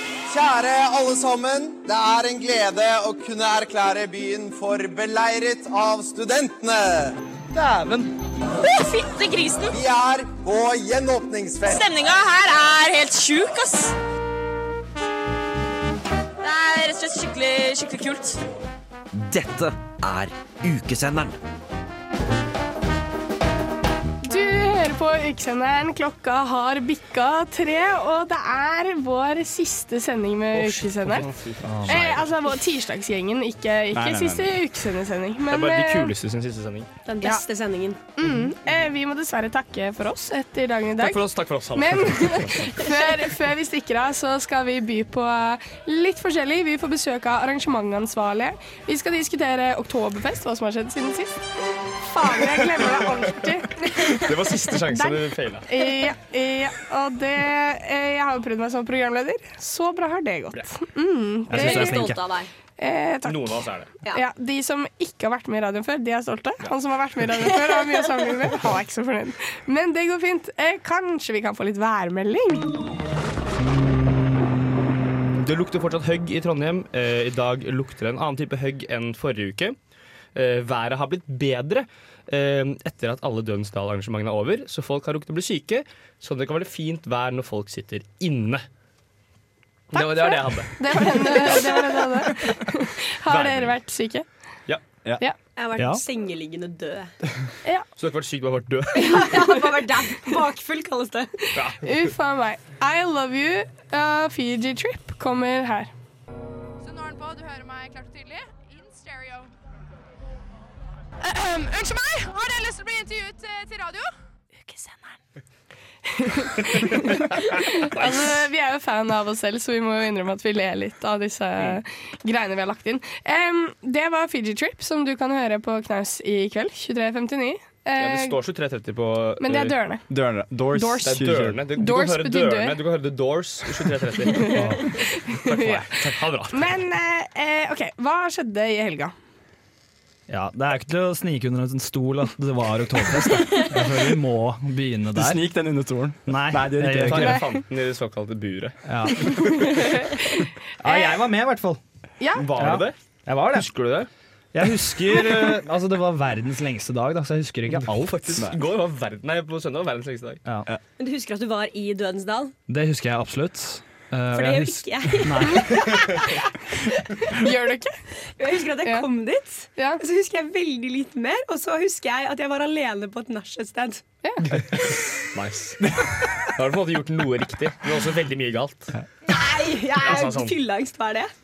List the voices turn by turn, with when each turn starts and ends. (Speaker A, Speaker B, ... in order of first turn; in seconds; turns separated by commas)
Speaker A: 0.3-7.2, Speaker B: 7.5-8.1, Speaker C: 8.6-9.8, Speaker A: 9.7-11.9, Speaker C: 11.7-13.9, Speaker C: 16.4-18.4, Speaker D: 19.1-21.4, Speaker E: 24.2-31.3, Speaker F: 30.7-32.2, Speaker B: 31.6-32.1, Speaker E: 31.9-36.1, Speaker G: 33.9-34.6, Speaker F: 35.5-36.9, Speaker H: 37.1-38.0, Speaker E: 38.2-51.4, Speaker F: 41.0-42.7, Speaker E: 52.0-62.0, Speaker F: 54.0-55.7, Speaker B: 61.5-62.2, Speaker H: 61.5-62.5, Speaker E: 62.8-72.7, Speaker F: 63.2-63.9, Speaker F: 75.3-79.8, Speaker F: 80.3-88.7, Speaker F: 89.9-92.0, Speaker E: 89.9-94.3, Speaker F: 93.3-93.7, Speaker H: 95.6-97.1, Speaker B: 95.8-96.0, Speaker F: 98.0-99.4, Speaker H: 98.9-101.3, Speaker F: 101.5-102.1, Speaker E: 101.8-105.9, Speaker I: 106.8-109.5, Speaker I: 111.3-114.1, Speaker E: 116.2-128.4, Speaker F: 117.9-118.4, Speaker F: 121.6-121.8, Speaker F: 128.0-129.8, Speaker E: 129.4-130.0, Speaker G: 130.1-131.6, Speaker E: 130.7-131.2, Speaker F: 131.0-134.7, Speaker E: 131.7-132.8, Speaker E: 134.3-139.2, Speaker B: 134.6-134.8, Speaker F: 135.4-136.8, Speaker B: 140.3-145.4, Speaker G: 145.2-147.4, Speaker B: 146.3-147.4, Speaker F: 146.9-149.3, Speaker B: 148.9-149.3, Speaker B: 150.8-151.8, Speaker E: 150.8-151.2, Speaker E: 152.2-152.7, Speaker F: 152.4-152.9, Speaker B: 152.6-153.8, Speaker F: 153.5-154.1, Speaker B: 154.5-158.4, Speaker F: 157.8-160.4, Speaker H: 161.0-162.5, Speaker B: 162.7-166.3, Speaker H: 164.3-166.0, Speaker E: 167.3-168.0, Speaker H: 168.4-174.1, Speaker E: 169.8-170.0, Speaker E: 174.2-174.5, Speaker F: 175.3-178.9, Speaker H: 179.3-181.3, Speaker F: 180.0-180.6